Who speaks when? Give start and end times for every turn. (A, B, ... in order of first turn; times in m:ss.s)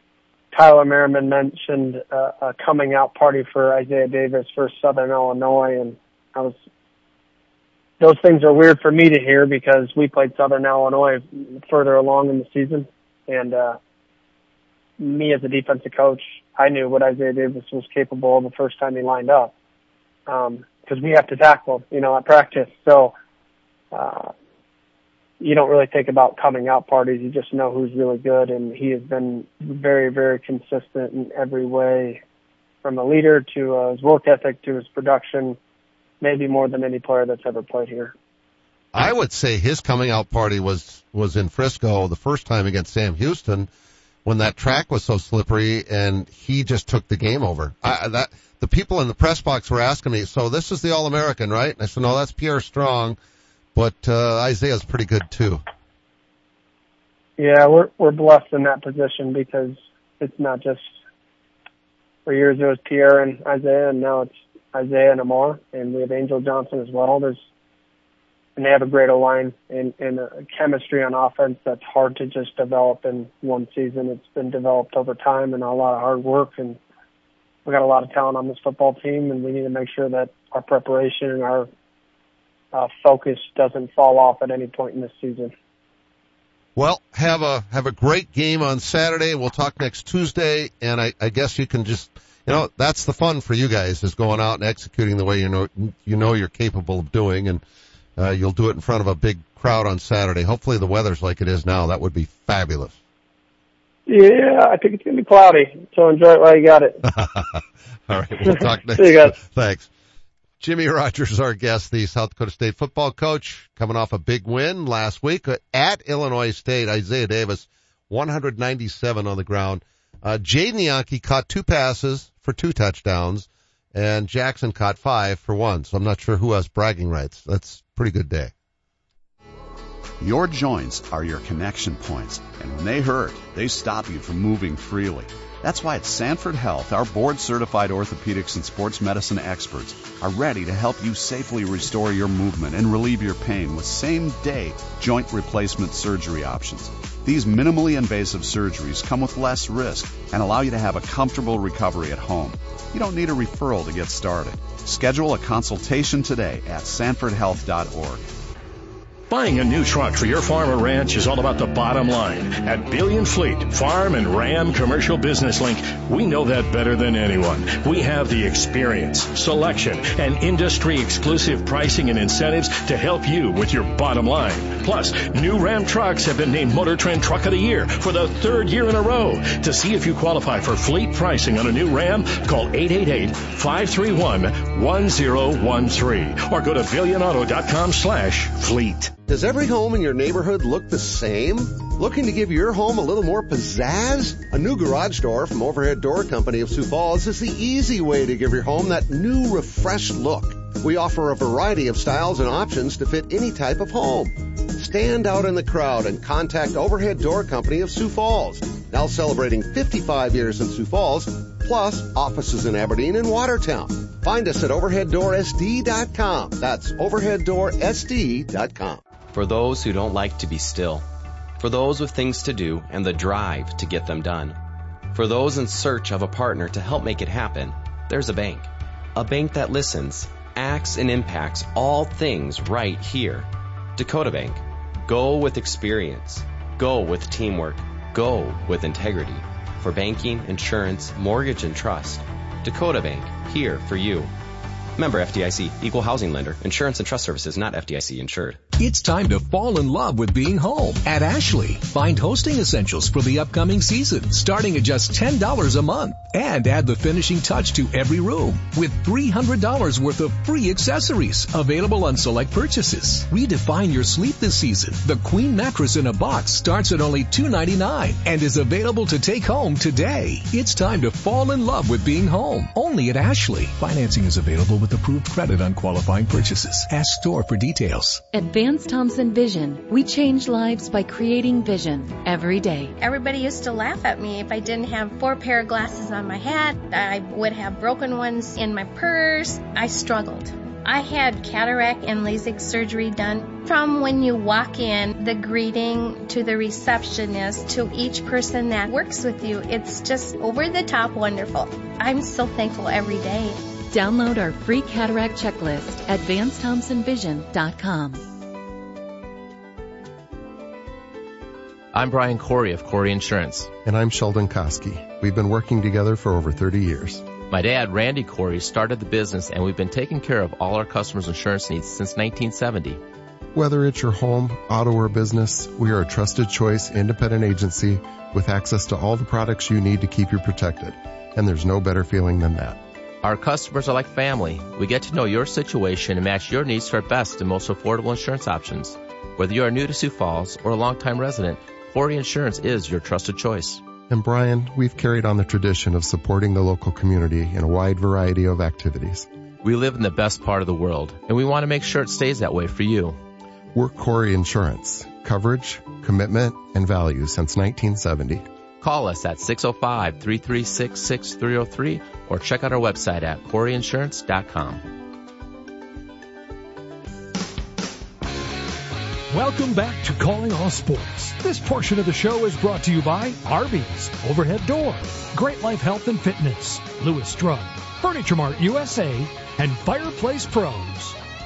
0:00.5-0:06.6 A
0:08.0-0:13.8 A
0:15.0-0:19.5 A
0:20.3-0:23.1 A
0:23.9-0:24.3 A
0:25.4-0:32.2 A
0:32.8-0:35.6 A
0:36.2-0:38.1 A
0:38.9-0:43.7 B
0:44.2-0:53.2 B
0:53.7-0:55.6 B
0:57.4-1:00.8 A
1:02.2-1:07.4 A
1:08.6-1:16.8 A
1:17.6-1:21.7 A
1:22.7-1:25.5 A
1:26.8-1:37.6 B
1:38.2-1:43.0 B
1:44.1-1:47.0 A
1:47.1-1:49.9 B
1:48.5-1:49.4 A
1:50.6-2:08.5 B
2:10.2-2:38.3 C
2:39.3-3:09.1 D
3:09.3-3:39.0 B
3:39.3-3:41.1 E
3:41.6-3:44.6 E
3:45.1-4:04.3 E
4:05.0-4:08.6 E
4:08.8-4:38.2 F
4:38.3-4:42.9 G
4:43.0-5:03.6 H
5:03.9-5:08.2 G
5:11.9-5:13.7 I
5:13.8-5:17.3 J
5:17.5-5:23.0 I
5:23.5-5:32.8 J
5:33.2-5:43.8 I
5:44.1-5:49.3 J
5:49.6-5:53.2 I
5:53.7-5:58.4 J
5:58.8-6:04.8 I
6:09.3-6:21.2 K